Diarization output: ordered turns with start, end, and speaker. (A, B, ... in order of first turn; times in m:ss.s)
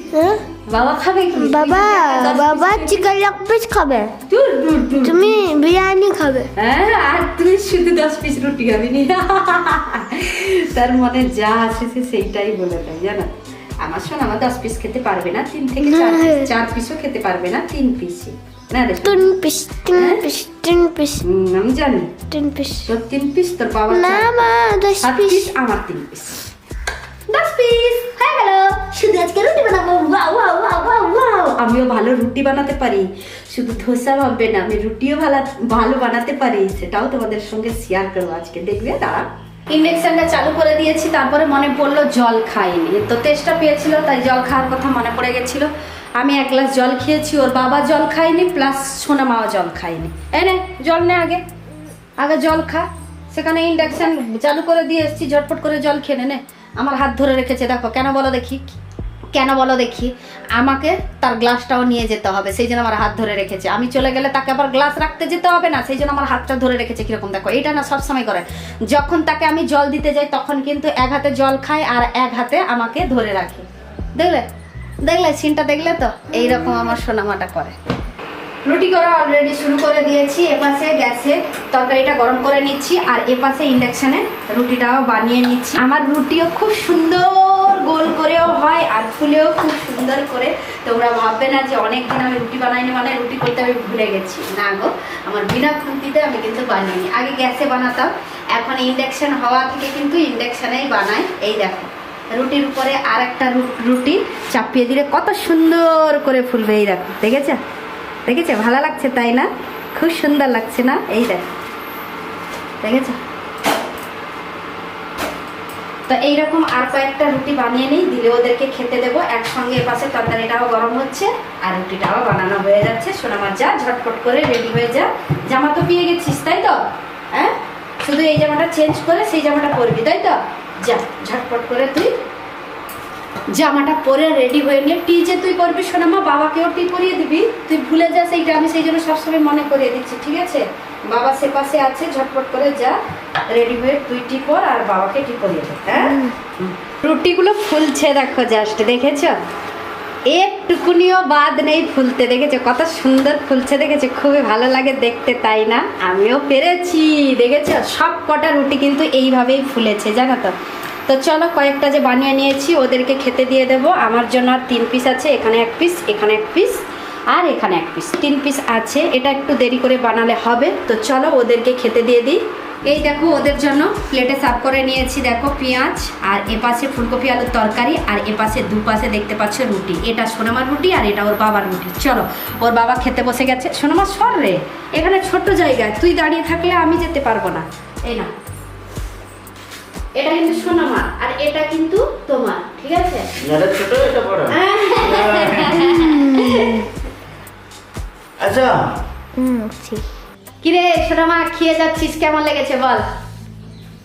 0:00.1-0:00.4 A
0:00.7-0:03.1 B
0:01.4-0:04.1 A
0:04.3-0:05.4 B
0:05.0-0:06.5 A
0:06.6-0:19.3 B
0:15.8-0:16.5 A
0:19.0-0:21.2 A
0:19.9-0:20.2 B
0:21.2-0:22.2 B
0:22.3-0:22.9 A
0:22.8-0:24.4 B
0:23.9-0:25.5 A
0:25.0-0:26.4 B
0:27.3-0:51.4 B
0:52.2-0:58.8 B
0:59.3-1:13.6 B
1:14.2-1:14.4 B
1:15.0-1:17.8 B
1:18.6-1:47.6 B
1:48.3-1:51.5 B
1:52.8-1:53.2 B
1:56.1-2:06.8 B
2:07.3-2:12.1 B
2:13.5-2:23.0 B
2:23.5-2:29.3 B
2:26.0-2:26.3 A
2:30.3-2:40.5 B
2:41.1-3:08.3 B
3:10.2-3:13.3 B
3:13.4-3:15.8 C
3:14.5-3:16.9 B
3:15.7-3:16.8 A
3:18.4-3:18.9 C
3:19.4-3:20.0 A
3:20.6-3:23.0 B